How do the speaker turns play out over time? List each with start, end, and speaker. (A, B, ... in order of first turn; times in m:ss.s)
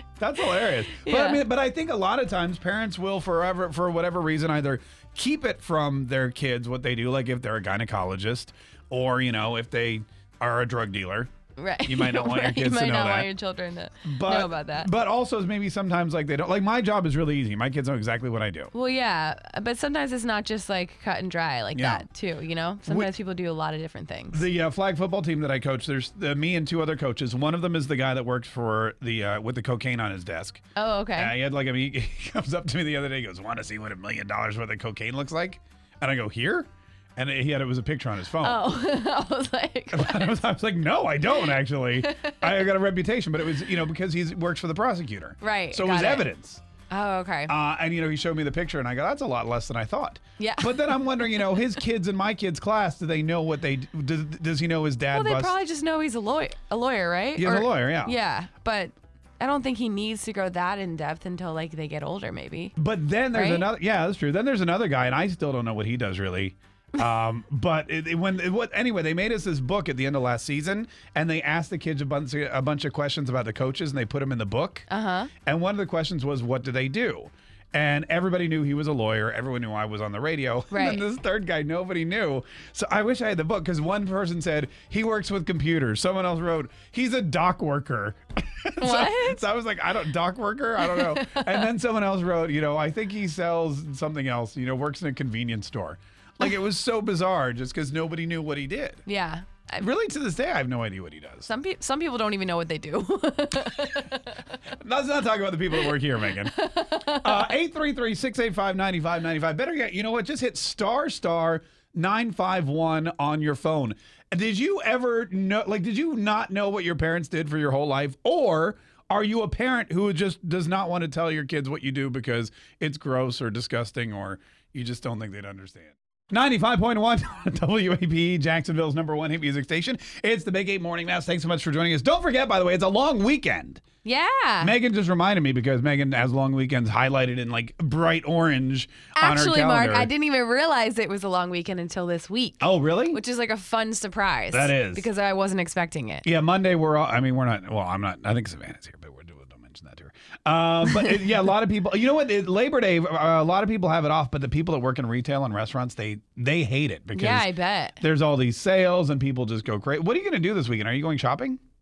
0:00.2-0:11.3 A
0:00.4-0:01.4 B
0:11.6-0:14.9 B
0:11.8-0:13.3 A
0:14.0-0:18.7 A
0:18.7-0:24.4 B
0:21.7-0:22.0 A
0:24.3-0:30.6 A
0:30.8-0:31.3 B
0:31.2-0:38.6 A
0:38.4-0:40.4 B
0:39.9-0:46.6 A
0:41.2-0:42.7 B
0:45.4-0:46.3 B
0:46.9-0:47.5 B
0:47.5-0:55.5 A
0:50.4-0:51.8 B
0:55.1-1:02.7 B
0:57.4-0:58.2 A
1:02.8-1:14.9 A
1:03.3-1:03.7 B
1:14.9-1:15.3 B
1:15.4-1:39.0 A
1:20.7-1:21.0 B
1:28.8-1:29.4 B
1:30.8-1:31.7 B
1:39.0-1:39.9 B
1:39.8-1:41.5 A
1:41.4-1:44.4 B
1:44.8-2:13.8 A
1:45.7-1:47.5 B
2:14.0-2:14.8 B
2:14.6-2:20.1 A
2:19.1-2:26.2 B
2:22.6-2:23.2 A
2:24.5-2:25.0 A
2:26.2-2:37.5 A
2:30.8-2:31.3 B
2:37.1-2:38.0 B
2:38.0-2:41.6 A